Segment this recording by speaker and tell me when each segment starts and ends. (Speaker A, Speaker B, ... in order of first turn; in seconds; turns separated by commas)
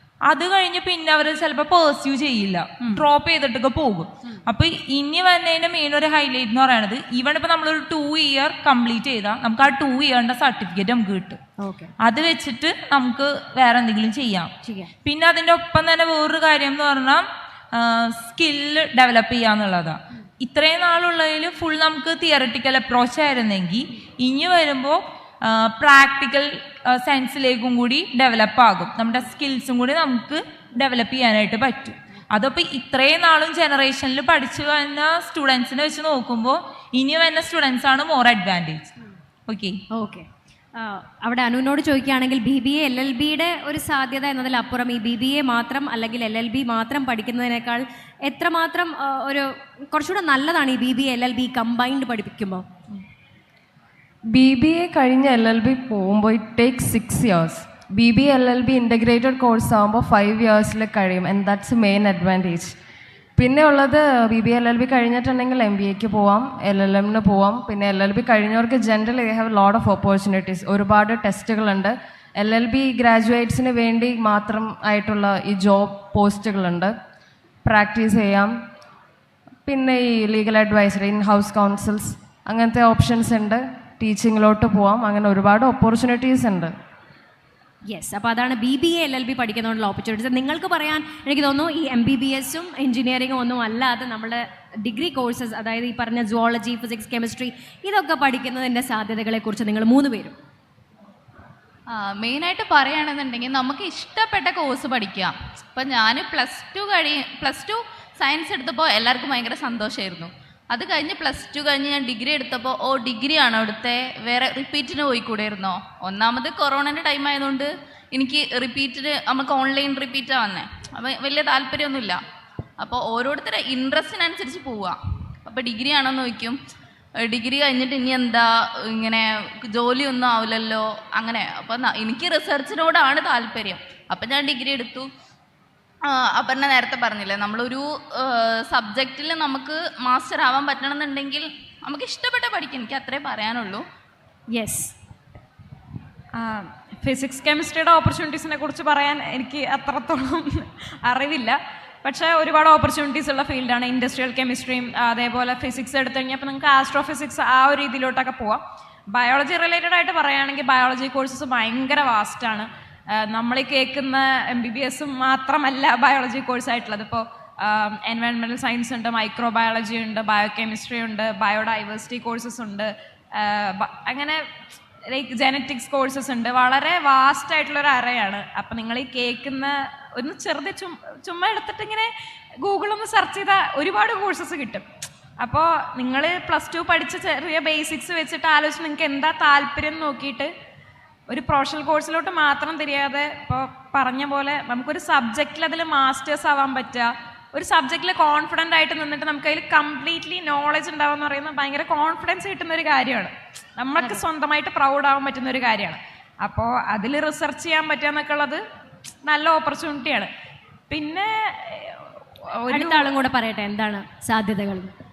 Speaker A: 0.3-11.4, Speaker B: 11.6-11.9, Speaker A: 12.0-38.9, Speaker B: 14.6-14.9, Speaker A: 39.5-39.8, Speaker B: 39.9-52.6, Speaker C: 54.3-62.7, Speaker C: 63.4-76.9, Speaker C: 77.6-78.5, Speaker C: 79.7-86.7, Speaker B: 87.8-100.4, Speaker D: 101.9-122.2, Speaker D: 122.8-126.6, Speaker D: 127.2-135.1, Speaker D: 136.1-143.8, Speaker B: 144.5-144.9, Speaker E: 146.3-158.6, Speaker E: 159.1-174.4, Speaker E: 175.1-184.8, Speaker E: 185.4-190.5, Speaker E: 191.3-208.6, Speaker E: 209.2-210.3, Speaker E: 210.9-213.1, Speaker B: 212.7-214.9